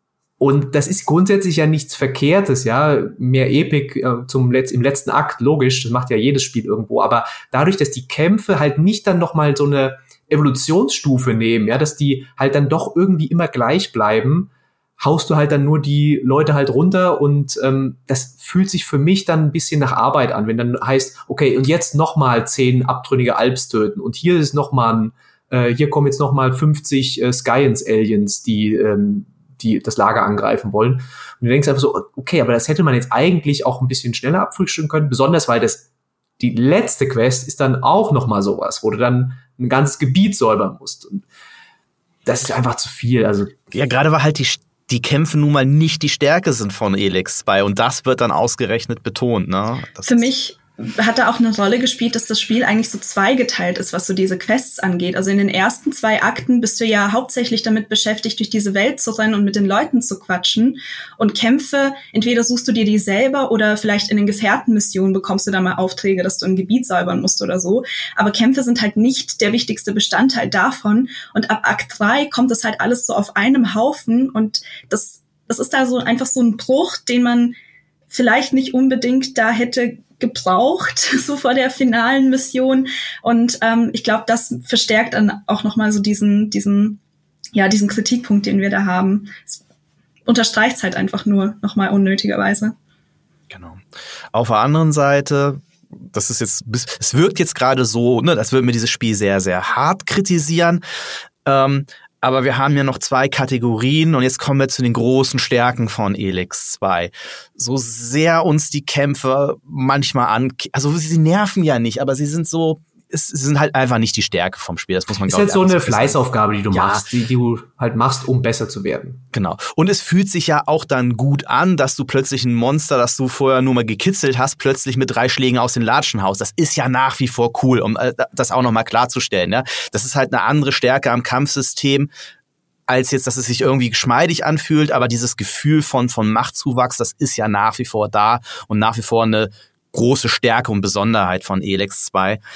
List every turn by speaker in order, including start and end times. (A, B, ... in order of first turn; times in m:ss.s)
0:00.4-0:35.8 A
0:36.4-0:41.2 A
0:42.3-0:43.6 A
0:43.7-0:50.3 B
0:50.1-1:17.6 C
1:18.1-1:27.0 C
1:27.6-1:29.6 C
1:30.3-1:32.8 C
1:33.5-1:33.8 B
1:34.3-1:40.8 B
1:41.4-1:56.2 B
1:55.2-1:59.2 A
1:56.7-1:57.0 B
1:59.3-2:12.1 B
2:12.9-2:22.4 B